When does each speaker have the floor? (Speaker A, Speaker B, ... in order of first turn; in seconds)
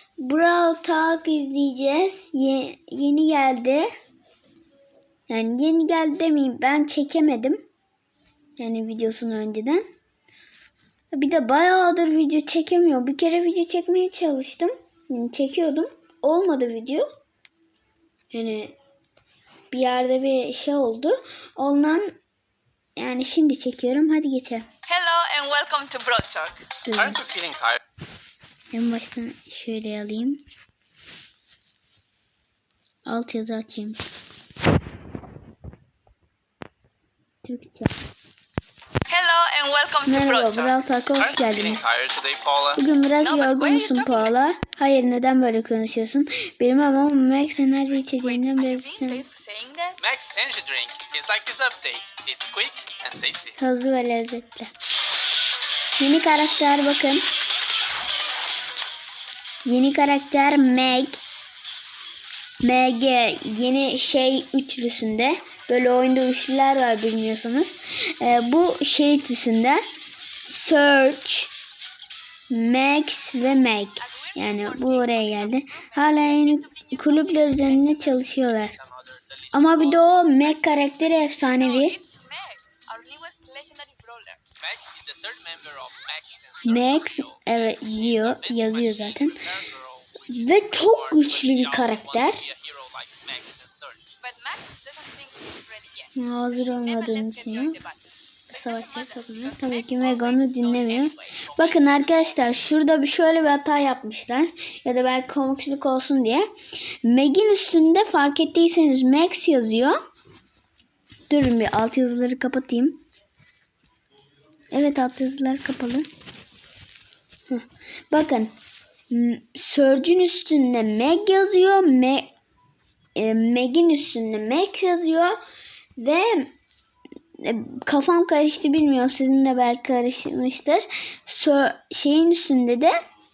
Speaker A: 0.2-3.9, 5.3-7.6, 8.6-9.8, 11.1-17.1, 18.3-18.8, 19.7-22.1, 22.9-24.7, 26.8-27.2, 28.7-30.4, 33.0-34.0, 37.4-37.9, 40.0-41.9, 42.8-49.2, 53.6-54.7, 56.0-57.2, 59.6-61.2, 62.6-69.8, 70.4-71.5, 72.5-78.7, 79.5-82.0, 86.6-89.4, 90.3-92.5, 96.2-97.8, 98.5-106.5, 107.0-110.0, 111.3-113.0, 114.7-116.1, 117.5-118.5, 119.1-122.3, 123.2-125.4, 126.0-126.5, 127.4-132.9
Speaker B: 24.8-26.6, 39.1-40.8, 43.2-44.4, 47.9-50.0, 74.0-78.5, 80.4-84.4, 94.2-101.4
Speaker C: 26.9-27.8, 41.2-42.8, 50.0-53.6, 78.5-80.7, 84.6-94.1, 101.3-102.5